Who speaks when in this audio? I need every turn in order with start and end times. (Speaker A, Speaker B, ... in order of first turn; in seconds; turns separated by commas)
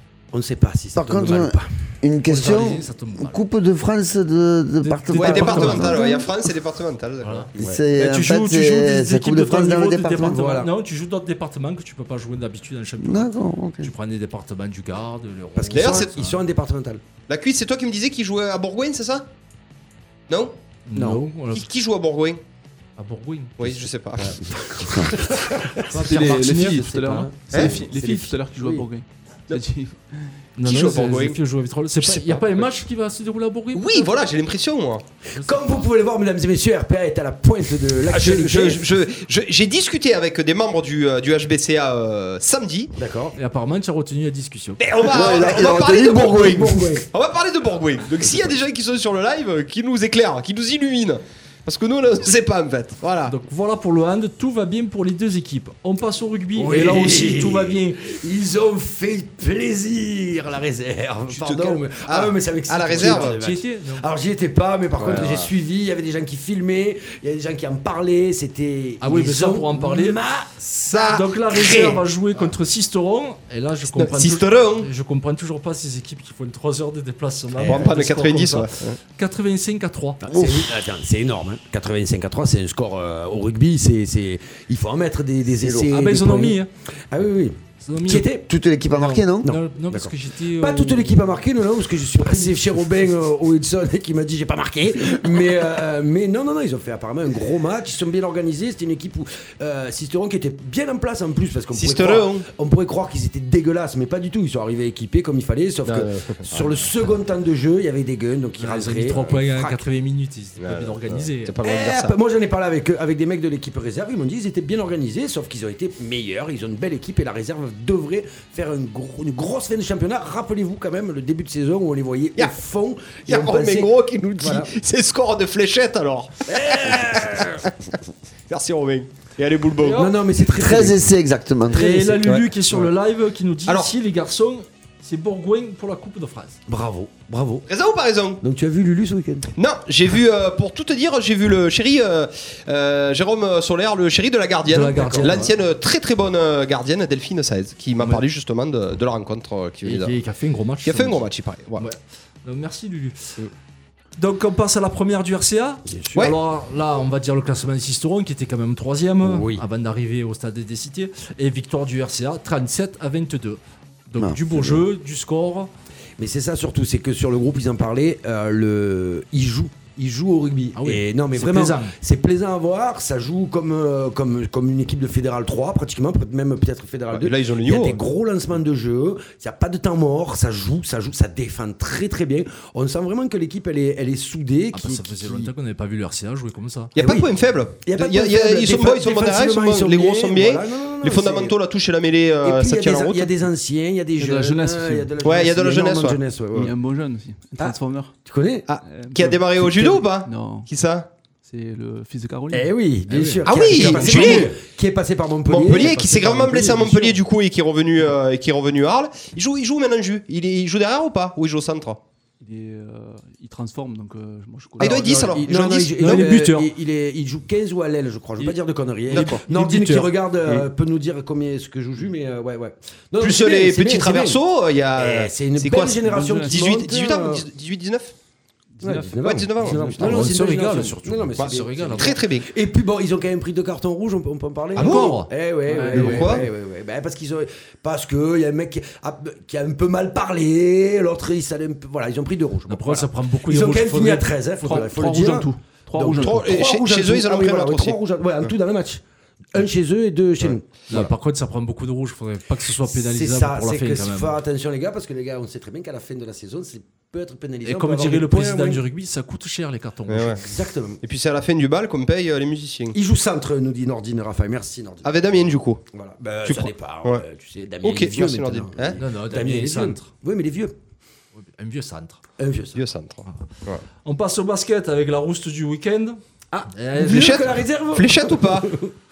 Speaker A: 0.3-1.7, Speaker B: 0.9-6.3, Speaker C: 2.2-3.4, Speaker C: 4.8-6.0, Speaker D: 5.1-7.5, Speaker C: 7.2-16.4, Speaker A: 7.6-7.8, Speaker B: 7.6-10.4, Speaker A: 10.2-10.7, Speaker B: 13.0-13.9, Speaker A: 15.6-17.0, Speaker D: 15.7-16.1, Speaker D: 17.3-19.3, Speaker D: 20.3-20.5, Speaker C: 20.9-21.6, Speaker A: 20.9-21.2, Speaker D: 21.5-22.4, Speaker C: 23.0-23.8, Speaker D: 23.6-24.4, Speaker A: 24.2-28.9, Speaker C: 25.9-27.1, Speaker E: 25.9-30.3, Speaker D: 27.5-27.8, Speaker C: 30.6-34.2, Speaker D: 30.6-31.4, Speaker D: 33.7-35.0, Speaker C: 35.3-35.9, Speaker A: 35.4-38.8, Speaker D: 38.1-42.9, Speaker A: 43.0-43.4, Speaker C: 43.4-44.8, Speaker D: 44.8-53.3, Speaker B: 45.0-46.8, Speaker A: 45.5-47.0, Speaker C: 53.2-58.0, Speaker A: 56.5-70.6, Speaker D: 61.3-63.4, Speaker C: 63.0-64.0, Speaker D: 65.0-65.5, Speaker C: 69.0-70.2, Speaker D: 70.6-72.0, Speaker C: 71.0-80.2, Speaker D: 73.9-74.9, Speaker A: 77.5-77.9, Speaker D: 77.7-79.0, Speaker A: 80.2-86.6, Speaker B: 80.3-80.7, Speaker B: 85.6-86.0, Speaker C: 85.9-86.7, Speaker A: 87.1-88.5, Speaker C: 87.8-88.3, Speaker B: 88.4-89.6, Speaker C: 88.9-91.2, Speaker A: 89.4-109.8, Speaker C: 92.2-92.5, Speaker D: 101.7-102.5, Speaker D: 105.8-106.7, Speaker C: 108.6-111.5, Speaker D: 110.6-112.2, Speaker A: 111.6-124.7, Speaker D: 123.2-127.7, Speaker A: 126.5-127.7, Speaker D: 128.5-130.1, Speaker A: 129.8-131.0, Speaker B: 130.5-132.1, Speaker A: 131.7-132.9, Speaker C: 131.7-136.6, Speaker D: 133.7-133.9, Speaker A: 136.7-137.7, Speaker D: 137.7-138.4, Speaker A: 138.4-139.5, Speaker D: 139.6-150.1, Speaker C: 144.6-145.5, Speaker A: 144.9-145.4, Speaker C: 148.0-148.2, Speaker C: 149.8-151.2, Speaker D: 150.8-151.8, Speaker C: 151.8-153.3, Speaker C: 154.2-165.7, Speaker A: 155.8-156.2, Speaker A: 159.2-159.6, Speaker B: 164.2-164.8, Speaker A: 166.2-185.5, Speaker C: 170.8-171.9, Speaker D: 177.1-178.0, Speaker C: 184.7-186.9, Speaker D: 186.9-193.3, Speaker A: 187.0-187.3, Speaker A: 187.8-191.5, Speaker A: 192.4-196.7, Speaker E: 194.2-195.1, Speaker D: 195.2-196.7, Speaker E: 196.5-198.1, Speaker A: 197.6-198.7, Speaker D: 198.7-201.1, Speaker E: 198.8-200.7, Speaker E: 201.4-204.5, Speaker A: 202.5-207.2, Speaker C: 203.1-203.4, Speaker D: 203.4-204.5, Speaker D: 205.5-212.0, Speaker E: 212.4-215.4, Speaker D: 214.8-216.3, Speaker A: 214.8-224.4, Speaker C: 216.0-216.7, Speaker D: 219.1-219.4, Speaker C: 219.1-220.1, Speaker D: 223.2-228.1, Speaker A: 224.9-227.4, Speaker E: 226.0-226.6, Speaker E: 228.8-230.4, Speaker A: 228.8-249.0, Speaker D: 229.2-230.3, Speaker C: 229.9-232.2, Speaker D: 231.4-232.5, Speaker D: 234.8-235.2, Speaker C: 234.8-235.3, Speaker E: 235.7-236.4, Speaker D: 235.9-236.5, Speaker C: 236.0-236.3, Speaker C: 242.7-244.8, Speaker E: 244.6-246.6, Speaker D: 246.2-248.5, Speaker A: 249.5-251.1, Speaker C: 250.9-254.4, Speaker A: 252.9-258.8, Speaker C: 257.6-260.4, Speaker D: 260.1-260.4, Speaker A: 260.4-261.0, Speaker D: 261.0-262.9, Speaker A: 262.9-270.7, Speaker D: 265.0-265.8, Speaker D: 266.4-267.2, Speaker D: 267.8-269.0, Speaker C: 269.0-270.1, Speaker C: 271.4-272.2, Speaker A: 272.4-272.8, Speaker D: 272.7-273.8, Speaker C: 274.0-276.2, Speaker A: 276.5-278.9, Speaker C: 276.7-277.6, Speaker D: 277.1-278.7